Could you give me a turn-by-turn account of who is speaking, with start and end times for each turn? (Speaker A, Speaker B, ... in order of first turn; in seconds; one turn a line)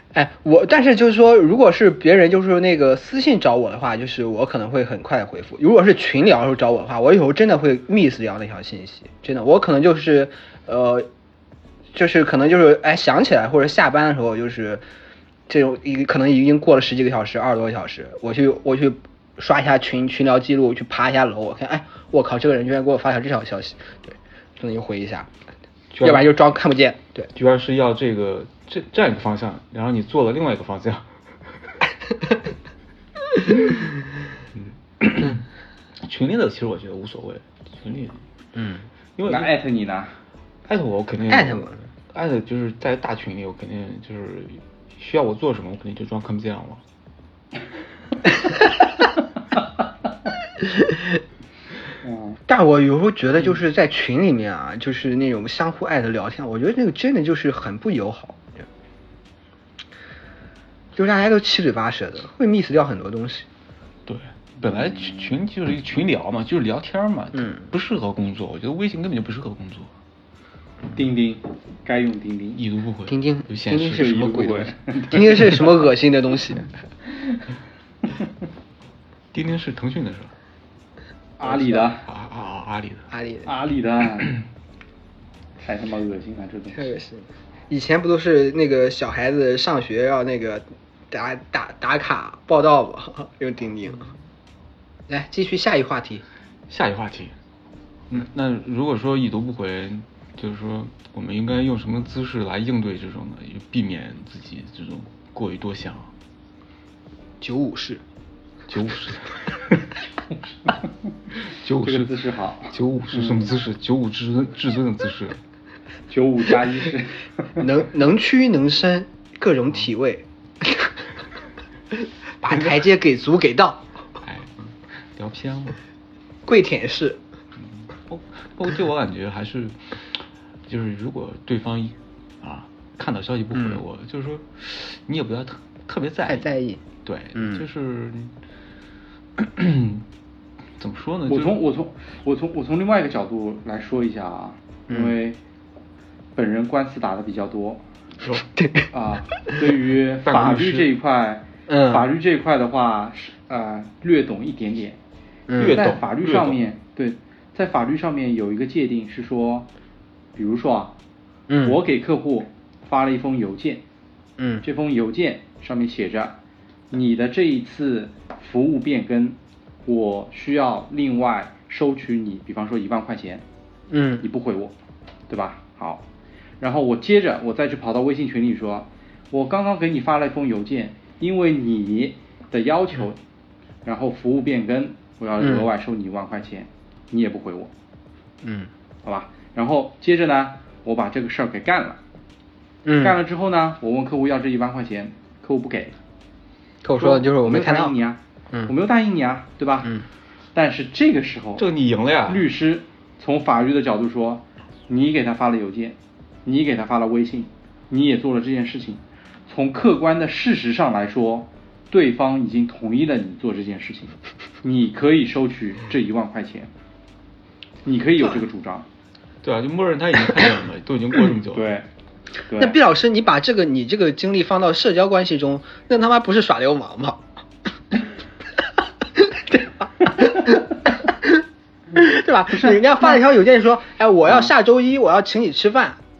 Speaker A: 0.1-11.1
Speaker A: 11.9-14.8
Speaker A: 15.5-25.3
Speaker B: 25.9-26.3
Speaker A: 26.0-27.3
Speaker B: 27.3-31.1
Speaker B: 34.5-35.4
Speaker B: 36.0-38.2
Speaker A: 38.5-38.8
Speaker B: 39.2-39.5
Speaker C: 39.3-40.1
Speaker B: 40.6-46.8
Speaker A: 41.3-41.8
Speaker A: 50.6-51.2
Speaker C: 52.0-52.4
Speaker A: 52.5-58.6
Speaker A: 60.9-63.5
Speaker B: 64.0-69.9
Speaker C: 64.7-65.3
Speaker C: 70.9-72.6
Speaker B: 72.6-74.6
Speaker A: 73.1-76.7
Speaker C: 73.9-75.7
Speaker C: 77.1-77.4
Speaker B: 79.3-80.3
Speaker C: 81.4-82.0
Speaker A: 81.5-81.8
Speaker B: 82.0-83.1
Speaker A: 83.1-83.5
Speaker C: 83.4-84.4
Speaker C: 85.6-86.9
Speaker A: 86.7-94.1
Speaker A: 95.1-96.2
Speaker B: 96.7-97.3
Speaker B: 98.1-106.1
Speaker A: 107.4-108.0
Speaker B: 108.7-109.9
Speaker B: 111.5-112.1
Speaker C: 111.8-113.5
Speaker B: 112.7-115.4
Speaker C: 116.1-117.6
Speaker A: 117.6-121.0
Speaker A: 121.9-123.9
Speaker B: 124.2-125.8
Speaker A: 126.5-127.2
Speaker B: 127.7-136.5
Speaker A: 136.3-136.8
Speaker B: 137.0-138.3
Speaker A: 137.3-137.6
Speaker B: 139.4-140.1
Speaker B: 140.8-141.6
Speaker C: 141.3-145.4
Speaker A: 144.9-145.1
Speaker C: 146.3-147.8
Speaker A: 148.3-148.9
Speaker C: 148.9-155.0
Speaker B: 150.2-150.9
Speaker A: 151.7-152.1
Speaker A: 155.5-155.8
Speaker B: 155.6-156.6
Speaker C: 155.6-159.7
Speaker C: 160.3-160.9
Speaker A: 161.5-161.8
Speaker C: 161.6-163.8
Speaker A: 164.4-164.6
Speaker C: 164.6-166.4
Speaker C: 166.9-173.4
Speaker A: 173.9-174.2
Speaker C: 174.2-174.7
Speaker C: 175.3-176.0
Speaker C: 176.6-183.2
Speaker C: 183.8-187.7
Speaker A: 185.4-185.7
Speaker A: 188.4-188.7
Speaker C: 189.0-192.0
Speaker A: 192.8-193.2
Speaker C: 193.0-195.9
Speaker A: 196.8-197.9
Speaker C: 197.0-199.9
Speaker C: 200.5-201.7
Speaker B: 201.6-202.5
Speaker C: 202.3-216.7
Speaker C: 217.8-218.9
Speaker B: 219.4-221.7
Speaker C: 221.5-221.9
Speaker C: 222.5-222.8
Speaker A: 222.6-227.2
Speaker A: 229.1-236.0
Speaker C: 232.5-233.2